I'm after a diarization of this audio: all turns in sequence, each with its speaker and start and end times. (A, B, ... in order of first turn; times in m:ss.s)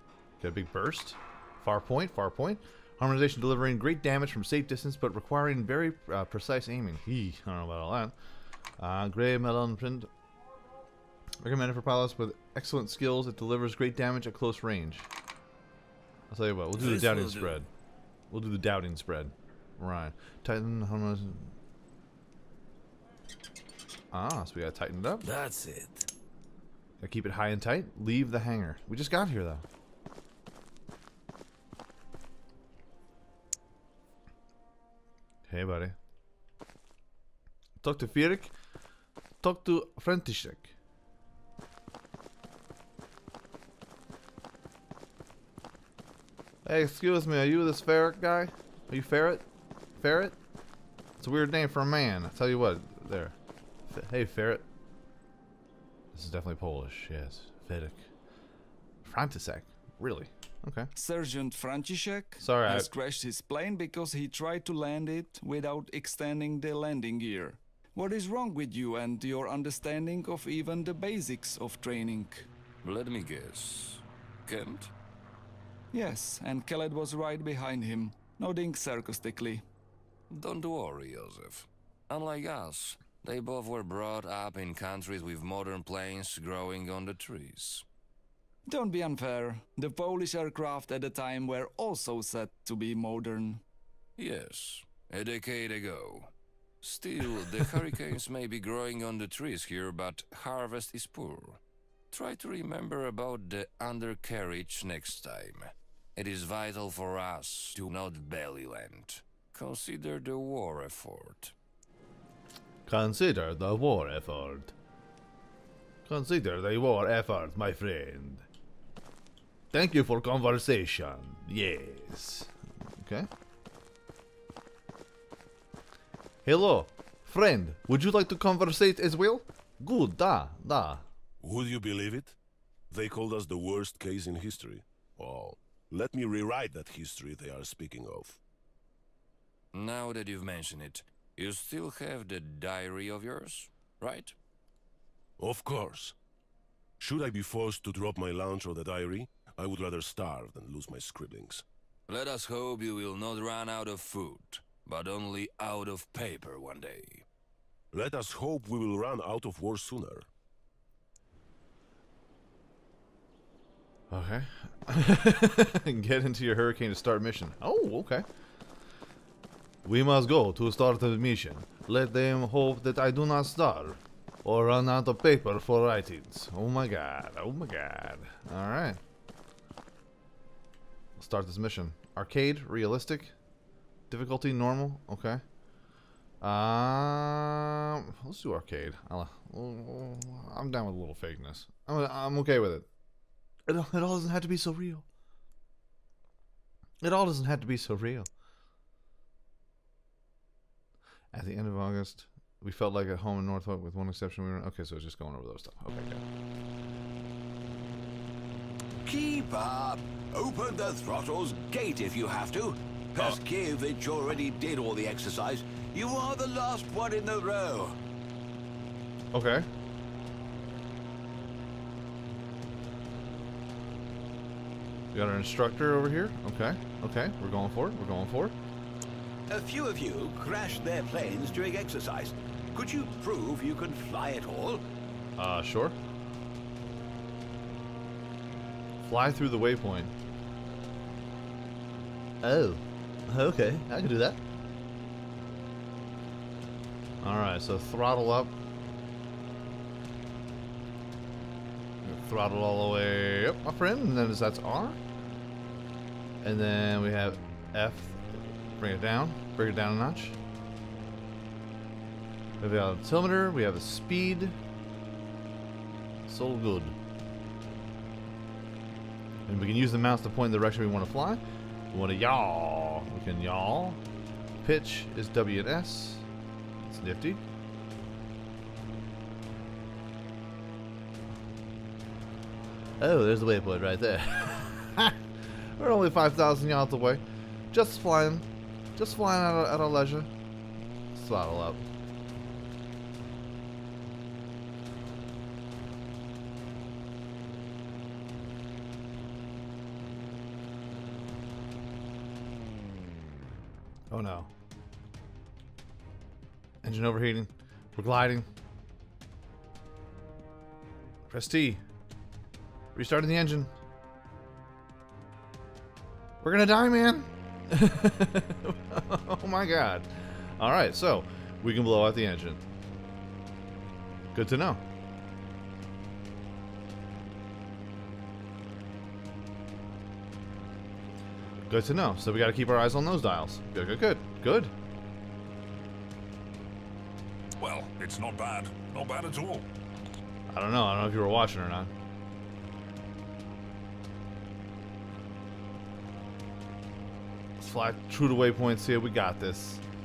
0:00.4-0:08.1 A
0:08.8-0:10.1 A
0:11.4-0:15.1 A
0:16.3-0:17.7 A
0:16.8-0:17.5 B
0:18.3-0:21.5 A
0:24.1-0:25.3 A
0:25.2-0:26.1 C
0:27.0-0:29.6 A
0:35.5-0:35.9 A
0:37.8-0:38.5 A
0:39.4-0:40.7 A
0:46.6-0:49.4 A
0:50.0-0:50.4 A
0:51.2-0:53.3 A
0:53.9-0:54.6 A
0:56.1-0:58.0 A
0:59.0-1:00.9 A
1:00.9-1:12.5 D
1:02.4-1:02.9 A
1:12.8-1:14.9 B
1:15.9-1:19.6 D
1:20.3-1:27.8 B
1:28.7-1:33.6 D
1:34.2-1:36.3 B
1:36.8-1:41.6 B
1:42.1-1:51.5 B
1:52.8-1:54.7 A
1:56.0-1:58.4 A
1:59.7-2:03.3 A
2:06.4-2:11.0 A
2:11.4-2:12.4 C
2:12.9-2:18.4 C
2:19.7-2:24.3 B
2:25.4-2:26.1 C
2:27.0-2:31.6 C
2:32.1-2:37.2 B
2:37.9-2:40.3 C
2:44.1-2:48.2 A
2:49.8-2:59.0 A
3:01.2-3:03.3 A
3:04.1-3:05.4 A
3:06.4-3:12.8 A
3:13.7-3:15.0 A
3:17.0-3:18.3 A
3:21.3-3:26.2 A
3:29.0-3:38.0 E
3:39.3-3:39.7 A
3:45.1-3:48.6 A
3:49.5-3:54.8 E
3:55.4-3:56.0 A
3:59.0-4:00.1 A
4:02.4-4:04.4 A
4:07.2-4:08.5 A
4:12.0-4:15.0 A
4:16.4-4:18.2 A
4:18.8-4:20.4 A
4:22.6-4:24.6 A
4:26.2-4:26.9 A
4:29.5-4:34.0 A
4:34.6-4:36.2 A
4:36.8-4:37.4 A
4:43.0-4:45.2 A
4:45.8-4:50.3 A
4:51.1-4:51.8 A
5:04.1-5:04.5 A
5:06.8-5:08.5 A
5:11.3-5:11.8 A
5:12.9-5:13.7 A
5:16.4-5:22.6 A
5:24.3-5:24.8 A
5:31.7-5:34.7 A
5:37.6-5:39.6 F
5:40.5-5:41.9 A
5:47.6-5:49.8 A